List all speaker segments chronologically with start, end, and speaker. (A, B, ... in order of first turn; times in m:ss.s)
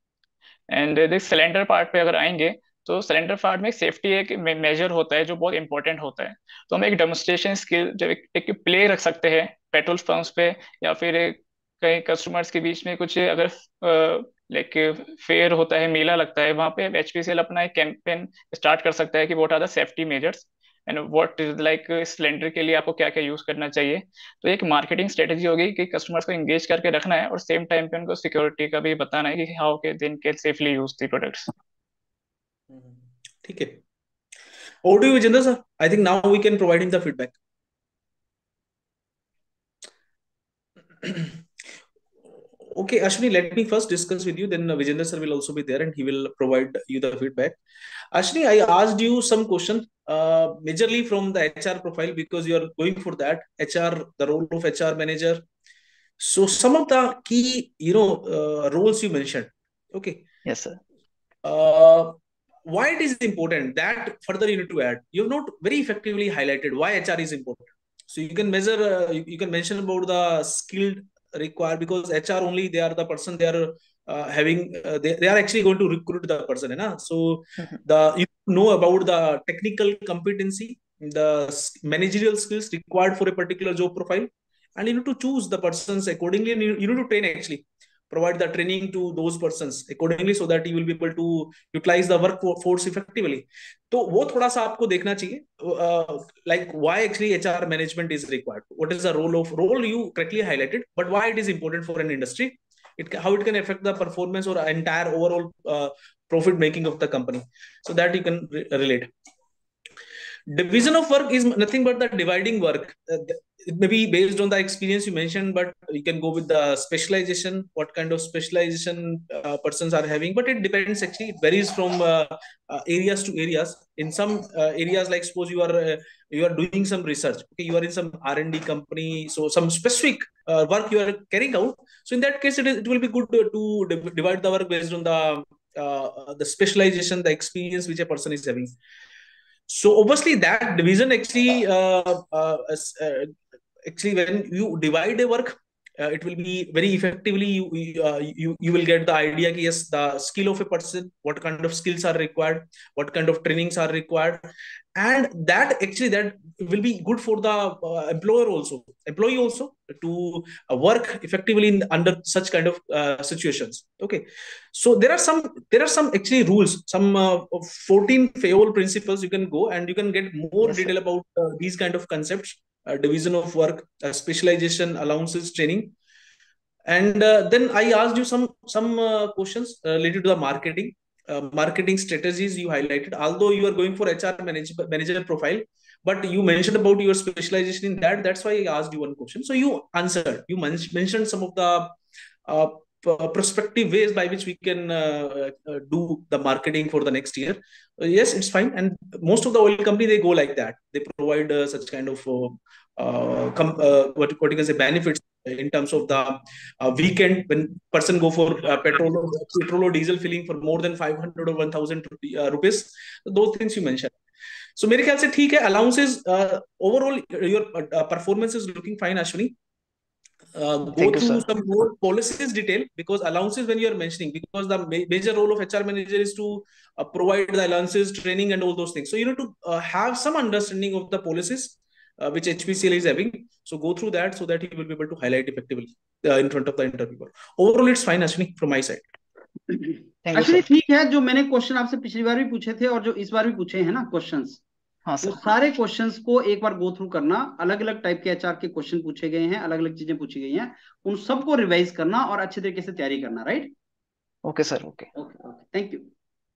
0:00.7-0:31.5 A
0:32.7-0:33.8 B
0:34.8-0:37.3 B
0:41.0-0:41.4 B
0:42.6-0:47.6 B
0:48.1-0:55.4 B
0:56.2-1:00.2 B
1:00.4-1:00.8 A
1:01.4-1:49.1 B
1:50.5-2:18.7 B
2:19.7-2:55.9 B
2:50.6-2:50.9 A
2:56.9-3:34.1 B
3:34.8-3:39.5 B
3:40.5-3:59.1 B
3:41.0-3:41.4 A
3:59.7-4:04.6 C
4:00.2-4:00.6 A
4:05.0-4:05.4 A
4:05.2-4:13.7 C
4:14.4-4:15.1 A
4:15.2-4:16.1 C